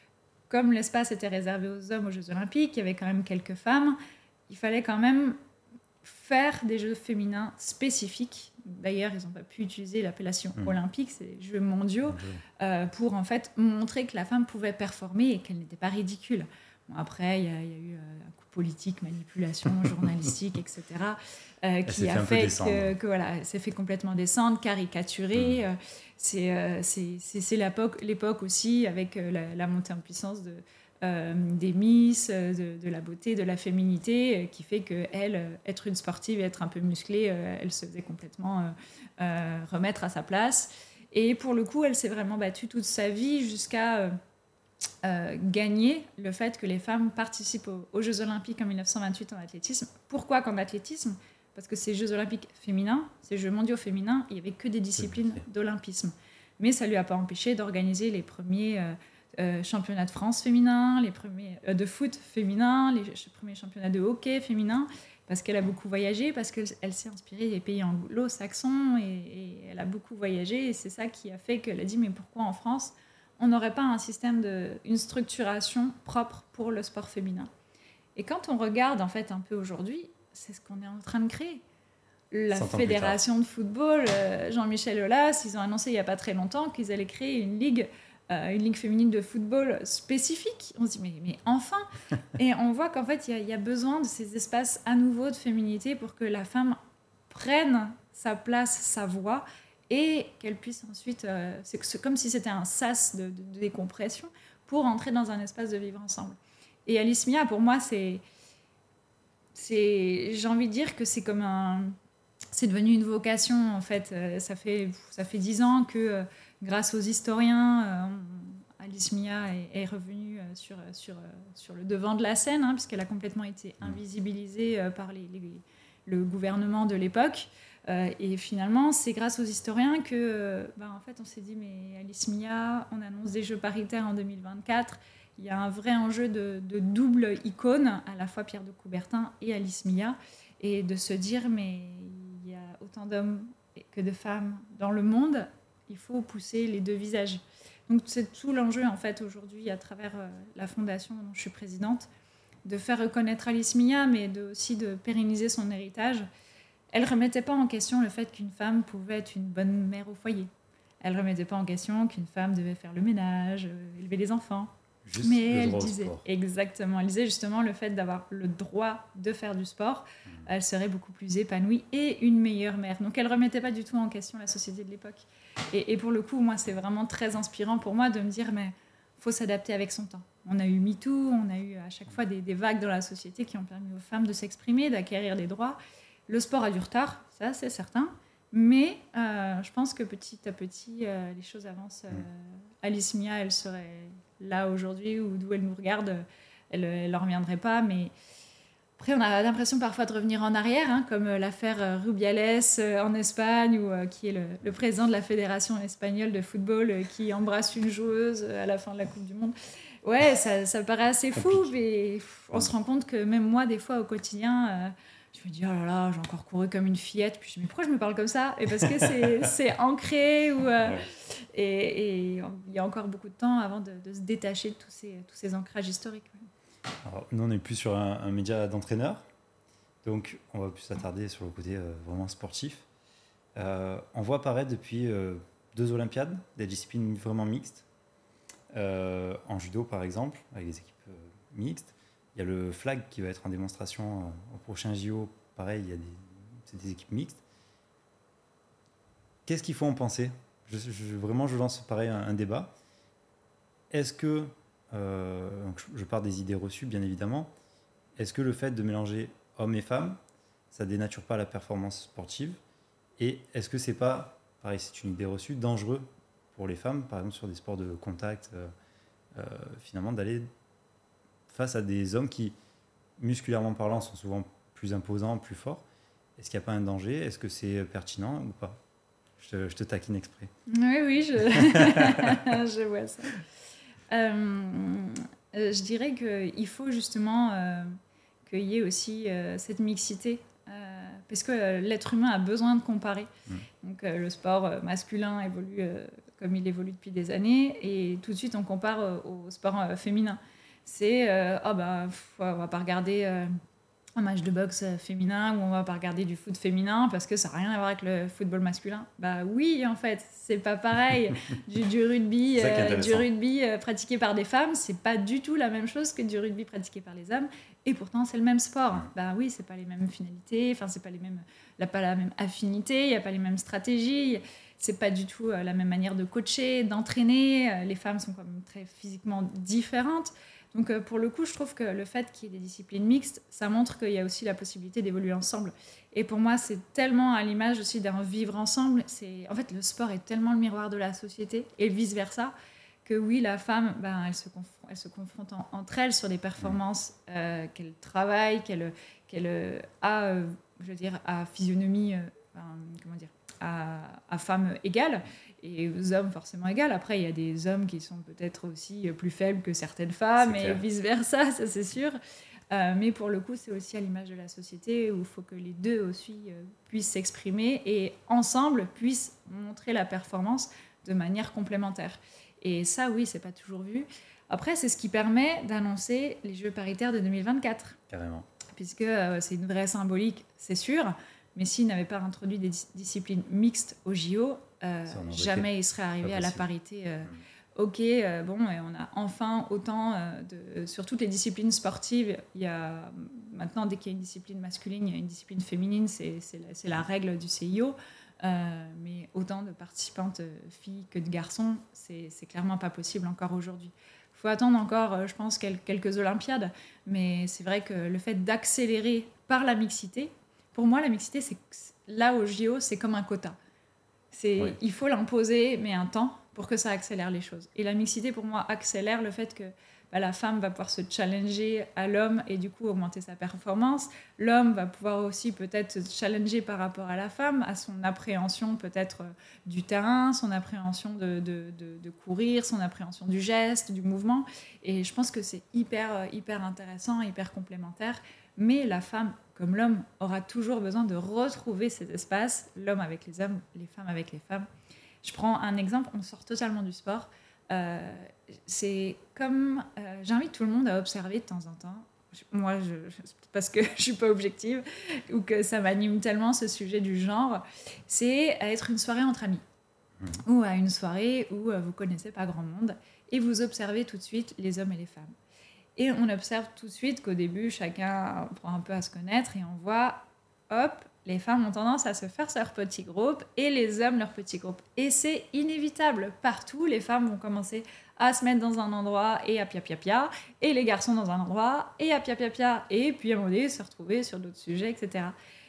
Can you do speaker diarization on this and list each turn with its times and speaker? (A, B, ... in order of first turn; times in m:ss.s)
0:00.5-0:05.4 A
0:06.0-0:44.1 A
0:12.0-0:12.4 B
0:21.8-0:22.9 B
0:45.0-1:17.5 A
0:55.0-0:55.4 B
1:18.2-1:21.6 A
1:22.3-1:48.2 A
1:22.5-1:23.2 B
1:49.5-1:52.0 A
1:52.5-2:32.1 A
2:32.6-2:36.3 A
2:36.9-3:18.1 A
2:45.0-2:46.2 B
3:19.0-3:46.4 A
3:38.8-3:39.5 B
3:47.0-3:49.2 B
3:50.0-3:52.9 B
3:53.6-3:57.8 B
3:58.7-4:07.4 B
4:09.4-4:12.7 B
4:13.9-4:17.5 B
4:18.2-4:20.2 B
4:20.7-4:22.6 B
4:23.2-4:28.7 B
4:29.3-4:30.5 B
4:31.5-4:32.5 B
4:33.2-4:35.8 B
4:36.4-4:38.8 B
4:39.4-4:40.5 B
4:40.7-4:43.4 A
4:41.5-4:42.5 B
4:44.1-5:03.5 A
5:04.2-5:42.5 A
5:12.5-5:13.3 B
5:43.0-6:02.2 A
6:00.4-6:00.8 B
6:02.7-6:18.0 A
6:18.1-6:18.5 B
6:18.7-6:53.6 A
6:25.1-6:25.7 B
6:26.2-6:26.6 B
6:54.3-7:24.7 A
7:25.2-7:39.6 A
7:40.4-7:45.3 A
7:46.0-8:05.3 A